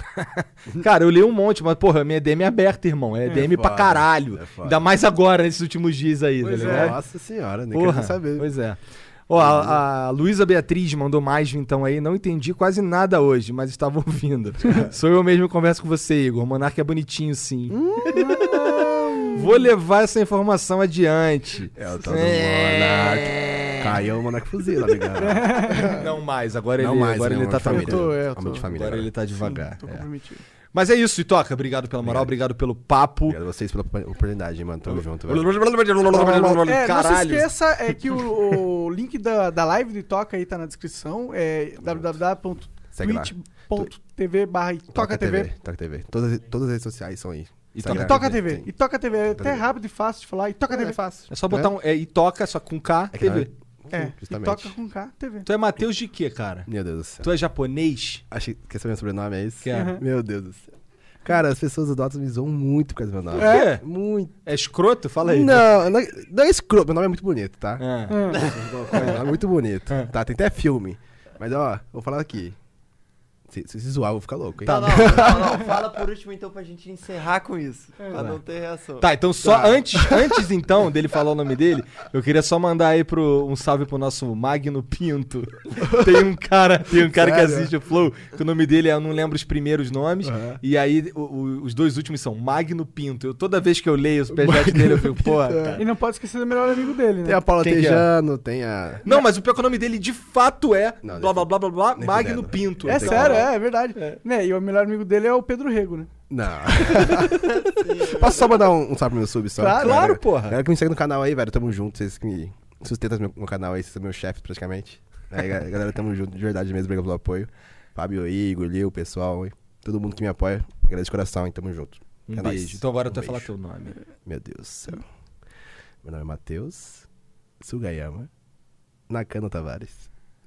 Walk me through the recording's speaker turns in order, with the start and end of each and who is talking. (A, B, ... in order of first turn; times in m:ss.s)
0:00.2-0:07.0 A
0:03.3-0:04.8 B
0:06.4-0:06.9 C
0:06.6-0:08.5 B
0:07.7-0:18.8 A
0:09.4-0:09.8 B
0:17.7-0:18.4 B
0:18.1-0:19.6 C
0:19.3-0:24.0 A
0:21.8-0:26.1 B
0:25.2-0:26.0 C
0:25.7-0:28.2 A
0:26.8-0:29.1 B
0:27.7-0:28.7 C
0:28.7-0:30.0 A
0:29.3-0:30.4 C
0:30.7-0:33.4 A
0:32.0-0:32.3 B
0:33.3-0:35.5 B
0:34.9-0:37.5 A
0:36.1-0:45.5 C
0:36.1-0:36.6 B
0:41.8-0:42.1 B
0:42.9-0:43.9 B
0:44.9-0:48.7 B
0:47.7-0:48.4 A
0:47.8-0:51.0 C
0:49.2-0:49.7 B
0:50.7-0:51.7 B
0:51.3-0:53.5 A
0:53.1-0:54.7 B
0:53.9-0:55.5 C
0:55.4-0:56.7 A
0:56.7-0:57.3 B
0:57.2-0:58.2 A
0:58.3-1:00.7 B
0:59.6-1:00.0 A
0:59.7-1:00.0 C
1:01.2-1:04.4 B
1:03.4-1:03.7 C
1:03.4-1:03.8 A
1:04.4-1:05.6 A
1:05.2-1:12.6 B
1:07.8-1:09.2 A
1:08.1-1:08.4 C
1:08.3-1:09.2 D
1:13.5-1:15.9 B
1:14.6-1:15.5 A
1:14.6-1:19.1 D
1:19.0-1:35.8 A
1:19.4-1:20.4 B
1:27.1-1:27.7 B
1:30.2-1:30.6 B
1:34.3-1:35.8 B
1:35.8-1:37.4 C
1:37.2-1:39.0 B
1:37.6-1:38.1 A
1:39.0-1:44.2 A
1:41.0-1:43.4 B
1:42.8-1:46.1 C
1:46.3-2:03.5 B
1:46.8-1:47.4 A
1:47.0-1:48.6 D
1:49.6-1:50.0 C
1:49.7-1:50.6 A
2:02.3-2:04.0 A
2:04.2-2:05.0 B
2:06.0-2:07.1 B
2:07.6-2:08.3 B
2:09.1-2:10.1 B